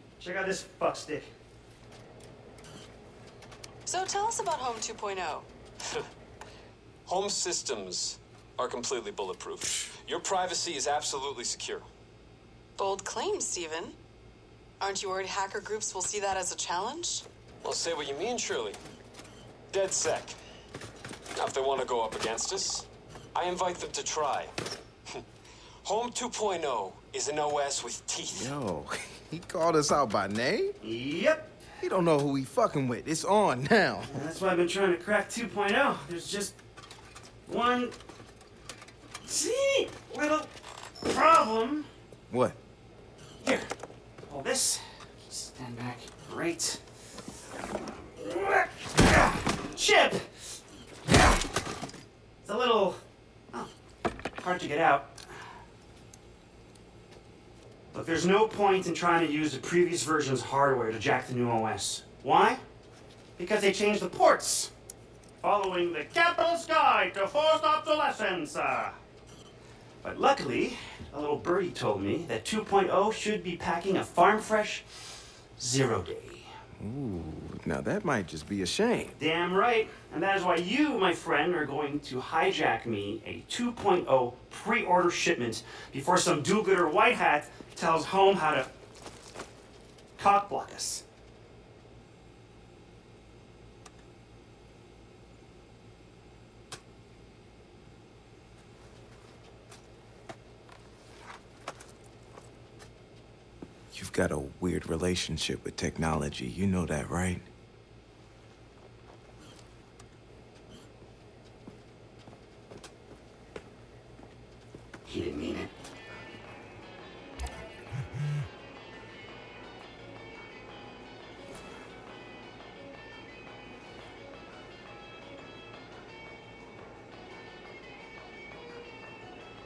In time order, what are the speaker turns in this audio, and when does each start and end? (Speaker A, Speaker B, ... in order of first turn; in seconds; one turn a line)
Speaker A: 0.2-1.3
Speaker B: 3.9-5.5
Speaker C: 7.1-11.9
Speaker B: 12.8-14.0
Speaker B: 14.8-17.2
Speaker C: 17.6-18.8
Speaker C: 19.7-20.4
Speaker C: 21.4-24.5
Speaker C: 25.8-28.6
Speaker D: 28.3-30.7
Speaker A: 30.8-31.6
Speaker D: 31.8-34.1
Speaker A: 34.1-36.5
Speaker A: 37.5-38.0
Speaker A: 39.2-40.5
Speaker A: 41.0-41.9
Speaker D: 42.3-42.6
Speaker A: 43.4-43.7
Speaker A: 44.3-46.8
Speaker A: 48.0-51.5
Speaker A: 52.4-53.0
Speaker A: 54.4-55.2
Speaker A: 57.9-62.6
Speaker A: 63.4-64.7
Speaker A: 65.4-69.0
Speaker A: 70.0-76.5
Speaker D: 76.8-79.2
Speaker A: 79.2-88.7
Speaker A: 90.2-91.0
Speaker D: 103.9-107.4
Speaker A: 115.1-115.7